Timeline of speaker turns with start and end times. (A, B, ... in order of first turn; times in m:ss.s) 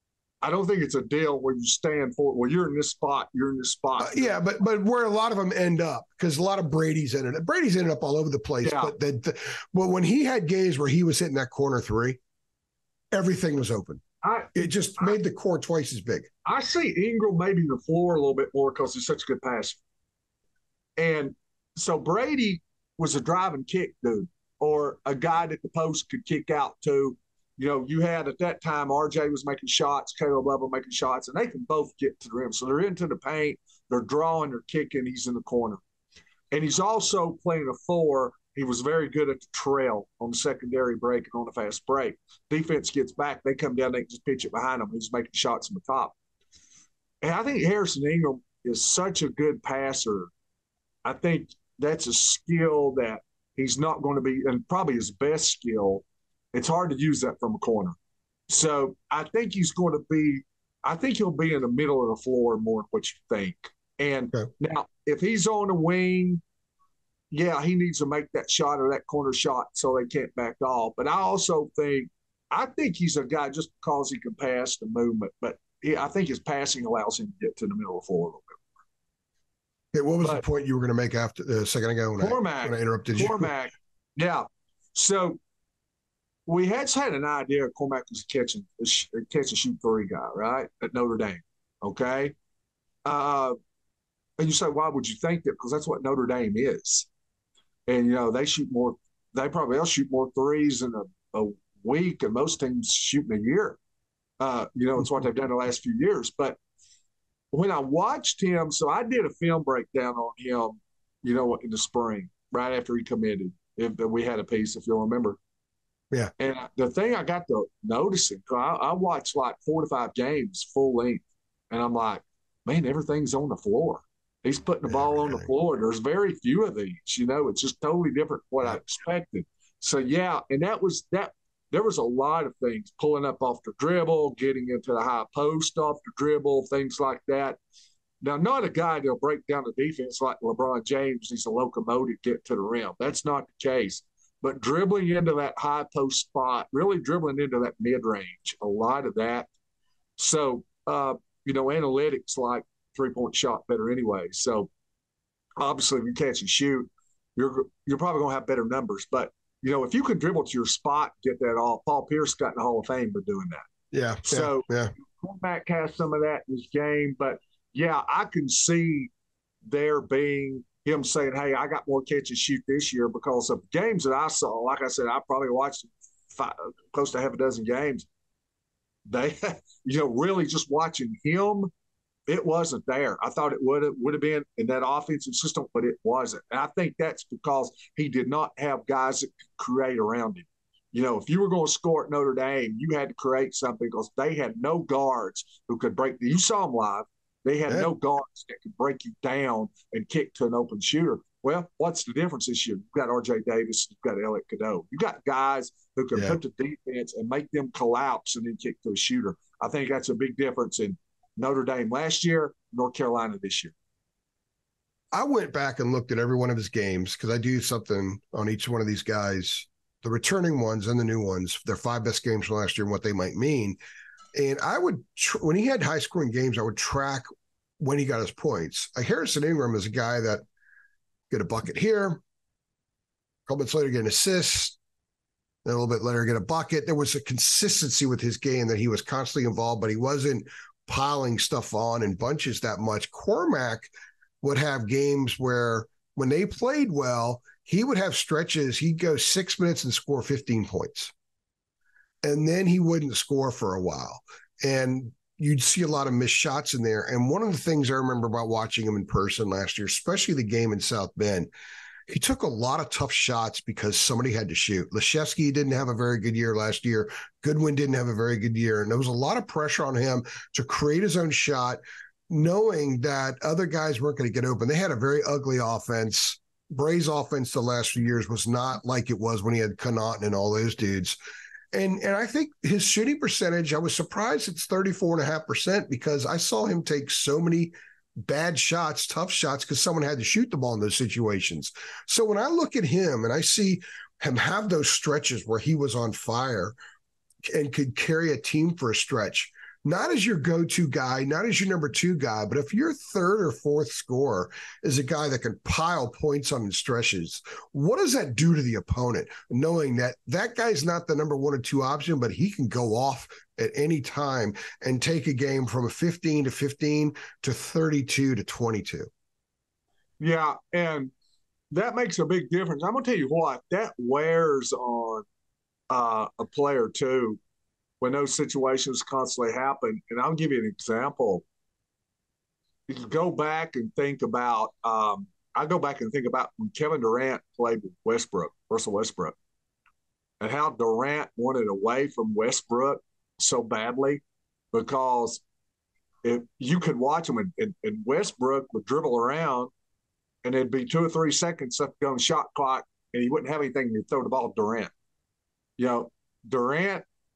0:00.4-0:04.4 A
0:04.0-0:12.2 B
0:08.6-0:08.9 A
0:13.1-0:14.0 B
0:14.2-0:15.2 A
0:14.6-0:16.3 B
0:16.4-0:19.8 A
0:21.0-0:35.8 A
0:36.5-0:46.2 A
0:47.2-0:50.3 A
0:51.0-0:58.0 A
0:58.5-1:06.4 A
1:07.3-1:18.7 A
1:19.9-1:23.5 B
1:22.2-1:25.4 A
1:26.5-1:32.3 A
1:33.0-1:33.6 A
1:34.4-1:37.1 A
1:37.9-1:43.8 A
1:44.4-1:46.6 A
1:47.5-1:55.4 A
1:56.4-2:17.6 A
2:04.9-2:05.5 B
2:18.2-2:29.5 A
2:30.2-2:34.7 A
2:35.6-2:43.6 A
2:43.9-2:44.9 B
2:44.2-2:49.1 A
2:49.6-2:58.1 A
2:59.1-3:01.7 A
3:02.3-3:33.7 A
3:35.1-3:43.8 B
3:44.3-3:47.3 B
3:47.8-3:50.4 B
3:51.3-3:52.2 B
3:53.5-3:54.8 B
3:55.6-4:03.9 B
4:04.4-4:11.1 B
4:12.2-4:21.5 B
4:22.1-4:41.2 B
4:41.7-4:56.8 B
4:57.5-5:19.1 B
5:20.2-5:21.1 A
5:21.7-5:25.3 A
5:25.9-5:27.4 A
5:28.0-5:31.4 A
5:32.9-5:39.4 A
5:40.4-5:45.4 A
5:46.2-5:49.7 A
5:50.4-5:54.9 A
5:55.8-5:57.0 A